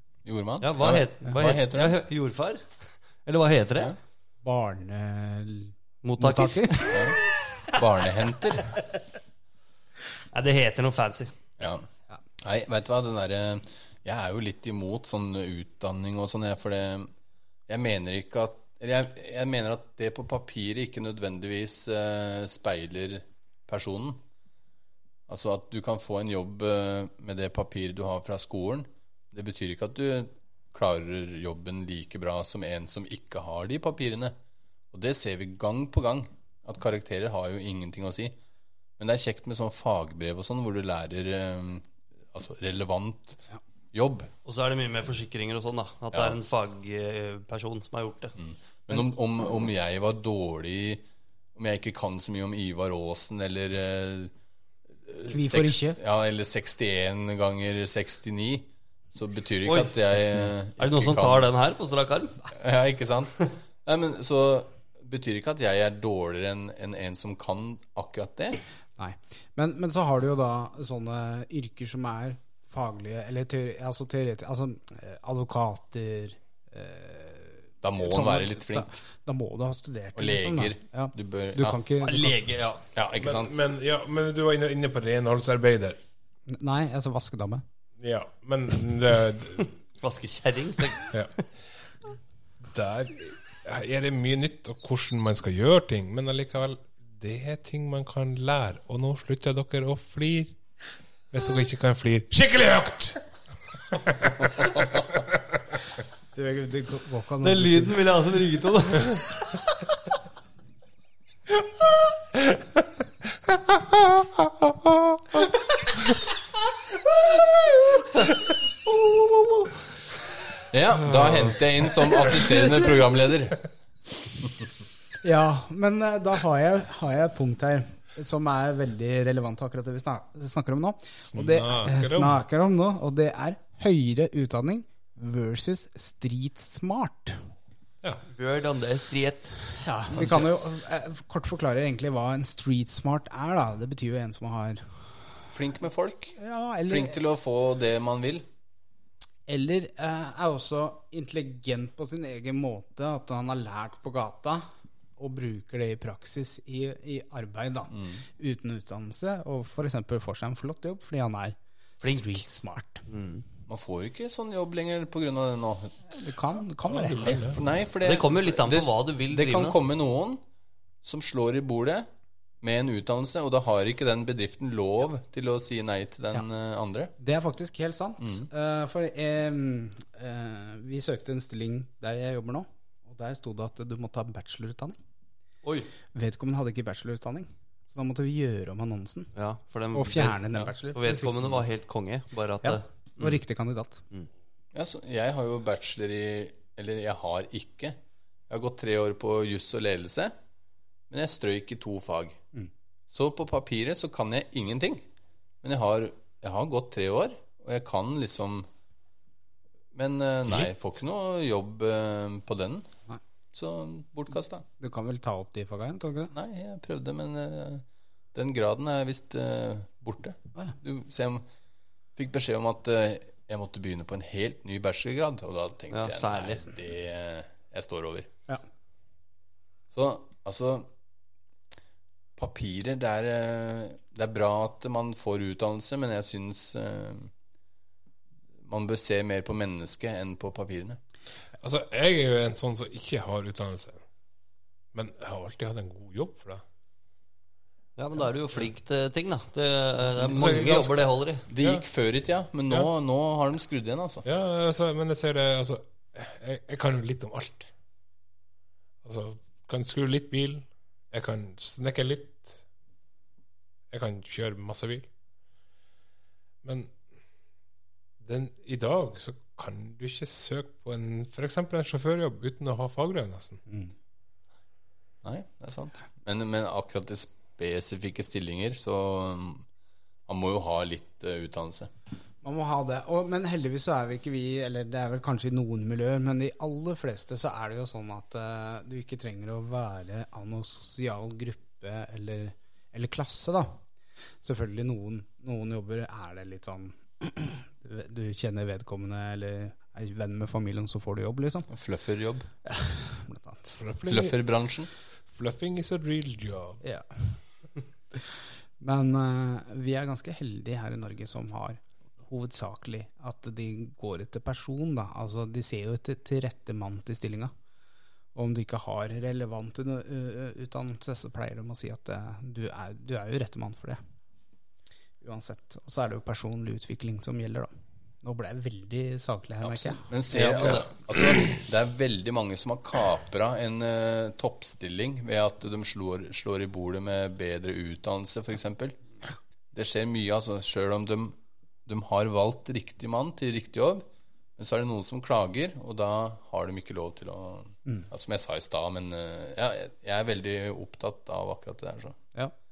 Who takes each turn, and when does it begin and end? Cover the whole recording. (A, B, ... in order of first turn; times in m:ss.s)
0:00.2-0:01.9 A
0:00.6-0:03.9 B
0:04.4-0:07.1 C
0:06.0-0:07.9 B
0:06.9-0:07.2 A
0:07.8-0:08.8 A
0:10.3-0:11.3 B
0:11.6-0:11.9 A
0:12.4-0:17.1 A
0:17.7-0:24.2 A
0:25.3-0:34.4 A
0:34.9-0:38.4 A
0:39.0-0:44.3 A
0:44.4-0:48.4 B
0:48.4-0:51.0 A
0:51.6-0:54.3 A
0:55.0-1:01.5 A
0:55.3-0:56.0 C
0:59.6-1:00.0 B
1:00.8-1:02.4 B
1:02.5-1:08.6 A
1:09.0-1:22.4 C
1:17.8-1:18.9 A
1:20.2-1:21.8 A
1:22.0-1:22.8 B
1:22.9-1:23.6 A
1:23.2-1:26.0 D
1:26.5-1:27.6 C
1:28.0-1:29.7 D
1:30.0-1:31.3 B
1:32.6-1:40.6 D
1:41.3-1:43.2 D
1:43.9-1:45.4 D
1:46.3-1:48.0 C
1:47.4-1:50.0 B
1:53.7-1:55.0 D
2:00.7-2:03.6 A
2:01.2-2:01.5 D
2:05.2-2:17.4 C
2:11.3-2:12.4 D
2:18.3-2:19.5 B
2:19.8-2:24.8 C
2:20.1-2:20.4 A
2:25.5-2:26.4 A
2:26.4-2:27.2 C
2:26.9-2:28.4 A
2:29.5-2:34.6 C
2:35.2-2:43.1 C
2:37.9-2:38.2 A
2:42.0-2:42.4 B
2:43.1-2:43.4 B
2:43.7-2:45.9 A
2:46.1-2:47.5 C
2:46.9-2:47.6 D
2:47.4-2:50.4 A
2:48.0-2:49.8 B
2:51.0-2:52.1 A
2:52.6-2:57.1 A
2:57.2-3:05.0 C
2:58.2-2:58.5 A
3:05.6-3:05.9 B
3:06.1-3:09.3 C
3:09.4-3:12.8 B
3:09.9-3:11.5 C
3:12.6-3:14.0 C
3:14.7-3:18.0 A
3:18.5-3:20.3 A
3:21.1-3:22.4 A
3:23.1-3:25.0 A
3:25.6-3:28.7 A
3:29.9-3:32.9 A
3:33.5-3:34.6 A
3:34.8-3:36.3 C
3:36.3-3:41.4 A
3:42.2-3:48.3 A
3:45.9-3:46.6 B
3:49.9-3:50.9 A
3:52.4-3:57.3 A
3:58.6-4:01.0 A
4:01.6-4:04.0 D
4:04.9-4:06.6 D
4:08.0-4:11.4 B
4:10.3-4:10.9 D
4:10.3-4:10.8 A
4:11.5-4:14.2 A
4:11.6-4:11.8 D
4:14.2-4:17.7 D
4:19.0-4:22.6 D
4:23.9-4:25.1 D
4:26.6-4:26.9 D
4:28.2-4:33.6 D
4:35.2-4:39.6 A
4:40.3-4:41.9 A
4:42.4-4:53.8 C
4:54.4-5:01.7 C
5:01.7-5:02.5 A
5:02.6-5:03.8 C
5:03.7-5:04.5 D
5:04.0-5:04.9 A
5:05.3-5:06.8 D
5:06.8-5:07.4 C
5:08.8-5:17.5 C
5:18.4-5:24.0 C
5:25.2-5:27.7 C
5:28.2-5:30.1 C
5:29.6-5:39.0 A
5:30.3-5:30.9 B
5:39.7-5:44.0 A
5:44.6-5:52.2 A